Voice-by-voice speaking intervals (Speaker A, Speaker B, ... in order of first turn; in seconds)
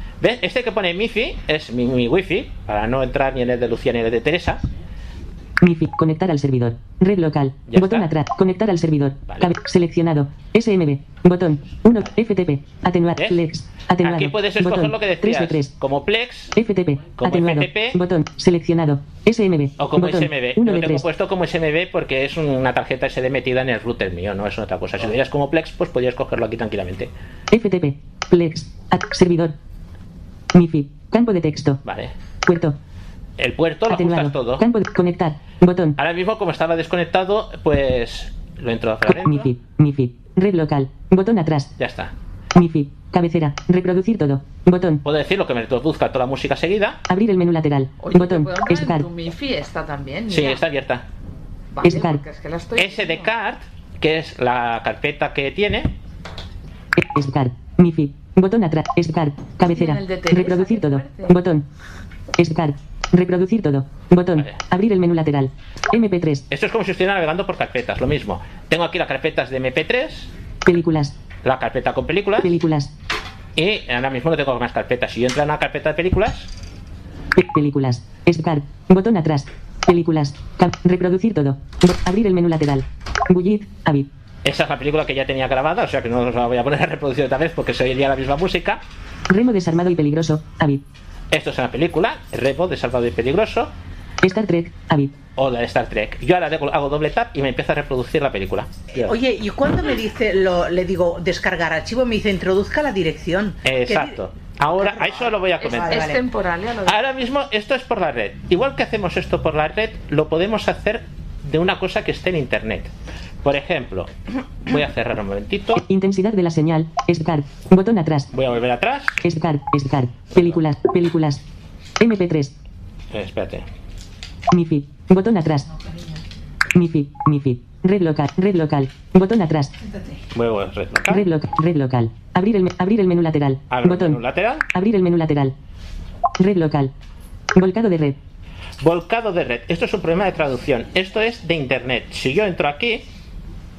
Speaker A: 0.2-4.7, 7.7-8.1, 9.3-9.5, 13.2-13.4, 14.0-16.6, 17.2-18.0, 19.8-27.1, 31.9-32.1, 33.4-34.6, 36.0-39.5, 41.8-42.1, 45.0-47.0, 50.3-51.0, 52.8-55.9, 66.5-70.3, 71.4-72.5, 73.6-76.5, 84.4-88.8, 91.3-93.7, 95.4-99.2, 103.6-106.1, 106.9-112.9, 113.4-115.8, 118.3-119.2, 123.1-123.7, 130.3-131.2, 133.7-134.7, 138.8-143.1
Speaker B: 5.6-15.7, 16.6-21.1, 27.5-29.6, 30.5-31.8, 32.5-32.8, 33.9-36.0, 39.0-41.7, 42.6-45.0, 47.1-49.1, 51.8-52.2, 57.0-61.6, 62.4-66.5, 70.7-71.1, 72.4-72.9, 77.3-84.1, 89.3-90.8, 94.2-95.1, 115.8-118.3, 119.2-121.4, 122.0-122.5, 124.5-125.7, 126.7-129.7, 131.1-134.2, 134.7-135.6, 136.4-136.9, 137.6-138.2
Speaker C: 48.0-50.6, 51.7-53.3, 59.7-61.3, 105.6-107.1
Speaker D: 98.9-104.2, 104.7-106.2